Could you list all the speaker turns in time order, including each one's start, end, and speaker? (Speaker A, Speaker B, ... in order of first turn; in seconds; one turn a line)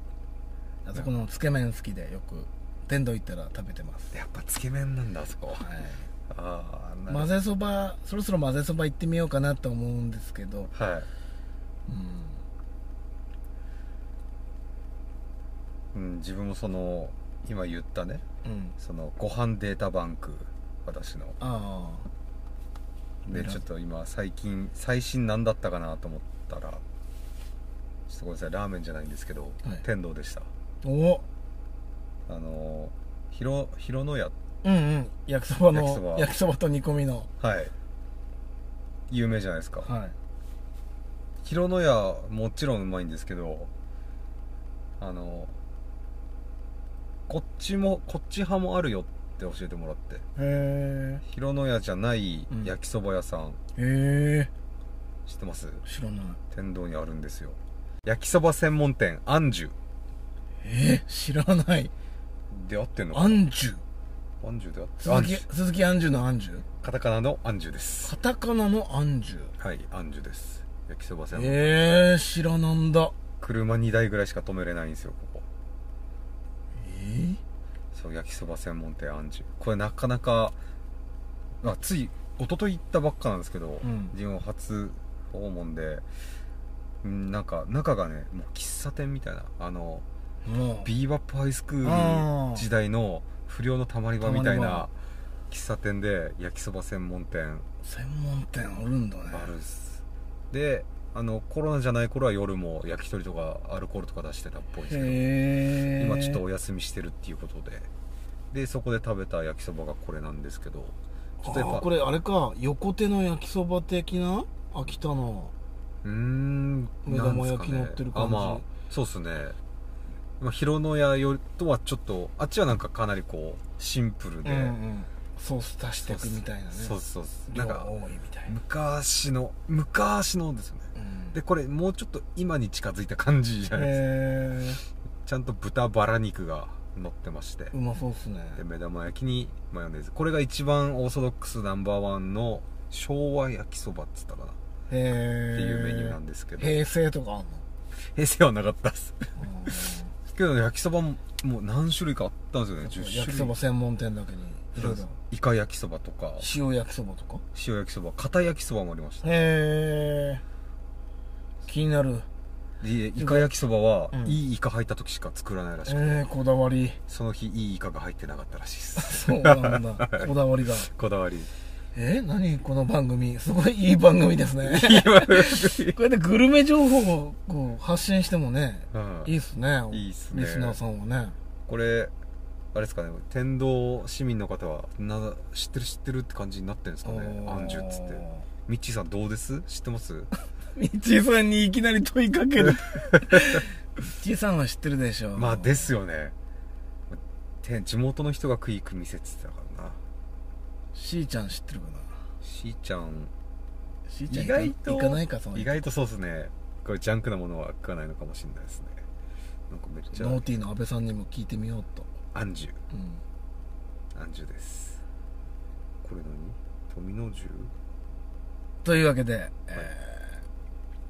Speaker A: 0.8-4.2
Speaker B: 4.1-5.6
Speaker A: 5.6-6.1
Speaker B: 6.3-7.4
Speaker A: 7.1-10.7
Speaker B: 10.7-11.1
Speaker A: 11.9-12.4
Speaker B: 15.9-18.2
Speaker A: 18.4-18.7
Speaker B: 18.8-21.4
Speaker A: 21.4-22.1
Speaker B: 23.2-26.8
Speaker A: 23.3-23.6
Speaker B: 28.1-30.5
Speaker A: 30.8-31.2
Speaker B: 32.3-34.3
Speaker A: 34.6-37.3
Speaker B: 35.7-36.3
Speaker B: 37.4-37.7
Speaker B: 39.1-39.9
Speaker A: 39.8-40.1
Speaker B: 41.4-43.7
Speaker B: 45.0-45.5
Speaker B: 47.3-50.2
Speaker A: 50.4-51.2
Speaker B: 51.2-53.6
Speaker A: 53.8-54.5
Speaker B: 55.2-55.8
Speaker A: 55.8-56.4
Speaker B: 56.5-59.7
Speaker A: 60.6-61.9
Speaker B: 62.5-63.4
Speaker A: 63.1-63.8
Speaker B: 64.4-65.5
Speaker A: 65.0-66.6
Speaker B: 66.8-68.1
Speaker A: 68.0-69.5
Speaker B: 69.6-71.6
Speaker A: 71.3-73.1
Speaker B: 73.4-75.5
Speaker A: 76.8-77.4
Speaker B: 77.9-80.5
Speaker B: 81.6-86.0
Speaker A: 83.8-84.1
Speaker B: 87.0-90.0
Speaker A: 90.4-90.9
Speaker B: 90.8-94.9
Speaker A: 91.8-92.7
Speaker A: 94.2-94.9
Speaker B: 95.5-97.7
Speaker A: 97.8-99.5
Speaker B: 99.3-105.2
Speaker A: 104.8-106.4
Speaker B: 105.9-107.9
Speaker B: 108.5-111.8
Speaker A: 111.4-115.5
Speaker B: 116.0-119.6
Speaker A: 117.0-118.7
Speaker B: 120.4-124.8
Speaker A: 124.4-127.0
Speaker B: 126.0-127.9
Speaker A: 127.5-128.5
Speaker B: 128.5-134.0
Speaker A: 130.9-131.4
Speaker A: 133.7-134.8
Speaker B: 135.2-137.7
Speaker A: 137.7-138.6
Speaker B: 138.6-144.6
Speaker A: 144.9-147.6
Speaker B: 145.5-146.7
Speaker B: 148.1-149.3
Speaker A: 149.4-150.1
Speaker B: 150.3-153.5
Speaker A: 152.8-155.2
Speaker B: 154.8-156.5
Speaker A: 156.4-157.4
Speaker B: 157.5-159.3
Speaker A: 159.2-160.4
Speaker A: 161.7-162.3
Speaker B: 162.8-166.3
Speaker A: 163.2-163.5
Speaker A: 164.1-164.4
Speaker A: 165.8-167.0
Speaker B: 167.1-170.3
Speaker A: 169.0-170.9
Speaker B: 170.8-171.5
Speaker A: 171.9-181.3
Speaker B: 174.6-176.0
Speaker B: 178.9-179.3
Speaker B: 179.9-180.8
Speaker B: 181.7-182.1
Speaker B: 182.7-190.3
Speaker A: 187.0-188.4
Speaker A: 190.8-195.9
Speaker B: 195.3-196.3
Speaker B: 197.1-200.0
Speaker A: 200.9-202.2
Speaker B: 202.4-203.3
Speaker A: 204.1-205.7
Speaker B: 204.3-209.0
Speaker B: 209.7-210.4
Speaker A: 210.1-212.1
Speaker B: 212.3-212.8
Speaker A: 212.9-213.2
Speaker B: 214.1-215.0
Speaker B: 216.0-217.7
Speaker A: 218.8-220.4